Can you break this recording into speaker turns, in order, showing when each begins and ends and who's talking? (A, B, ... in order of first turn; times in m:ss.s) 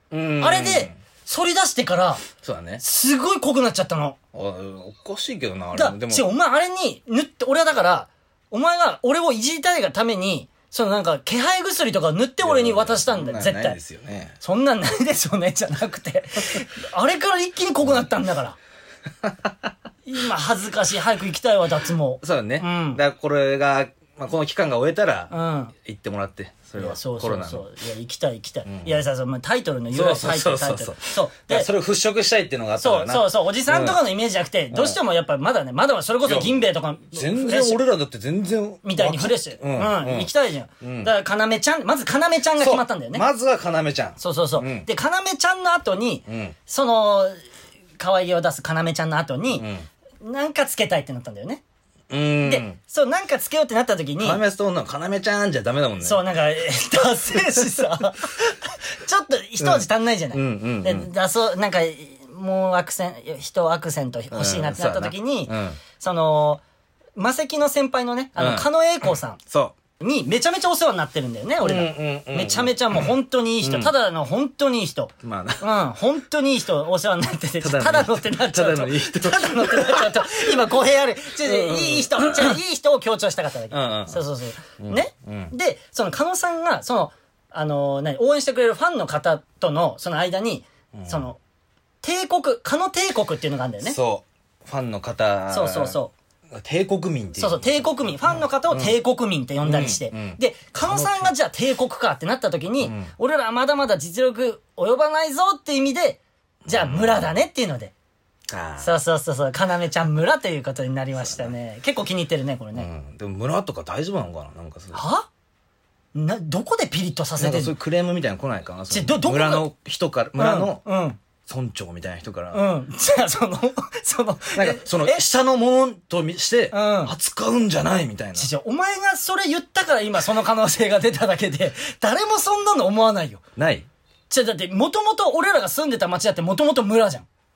0:00.1-0:00.9 A
0:00.4-0:02.2 B
0:02.4-0:02.8 A
0:02.8-0:04.2 B
0:04.3-0:06.3 A
0:05.7-0:13.8 B
0:12.4-0:14.4 A
0:14.4-0:18.6 B
0:19.2-0:19.7 A
0:20.1-0:23.0 B
0:22.2-0:27.6 A
0:25.3-0:25.7 B
0:26.8-0:31.7 B
0:28.7-0:29.0 A
0:29.9-0:34.0 A
0:32.8-0:37.8 B
0:34.7-0:35.0 A
0:36.2-0:40.3 A
0:38.8-0:43.3 B
0:40.8-0:41.1 A
0:42.6-0:44.9 A
0:44.2-0:47.4 B
0:46.3-0:46.6 A
0:48.0-0:49.7 B
0:49.6-0:49.9 A
0:50.2-0:51.6 B
0:52.1-0:52.8 A
0:52.4-0:54.4 B
0:54.2-0:56.2 A
0:56.0-1:06.6 B
0:59.6-1:01.1 A
1:04.3-1:05.8 A
1:07.2-1:09.4 B
1:08.4-1:08.7 A
1:09.5-1:09.8 A
1:10.0-1:31.4 B
1:11.6-1:13.1 A
1:13.6-1:13.9 A
1:15.2-1:15.6 A
1:17.6-1:20.5 A
1:21.4-1:22.6 A
1:23.7-1:24.2 A
1:24.8-1:25.5 A
1:30.9-1:31.2 A
1:32.0-1:34.0 B
1:33.8-1:36.0 A
1:35.5-1:36.1 B
1:36.5-1:39.0 A
1:37.4-1:47.9 B
1:39.6-1:41.3 A
1:42.8-1:43.1 A
1:46.7-1:47.3 A
1:48.5-1:49.0 A
1:48.8-1:52.9 B
1:51.2-1:51.5 A
1:52.8-1:55.0 A
1:54.9-1:55.3 B
1:56.1-1:57.7 B
1:57.4-2:00.8 A
1:58.9-1:59.7 B
2:00.4-2:01.2 B
2:01.5-2:02.6 A
2:02.5-2:05.2 B
2:04.6-2:08.5 A
2:06.7-2:07.1 B
2:08.4-2:13.4 B
2:13.6-2:13.9 A
2:14.3-2:17.3 B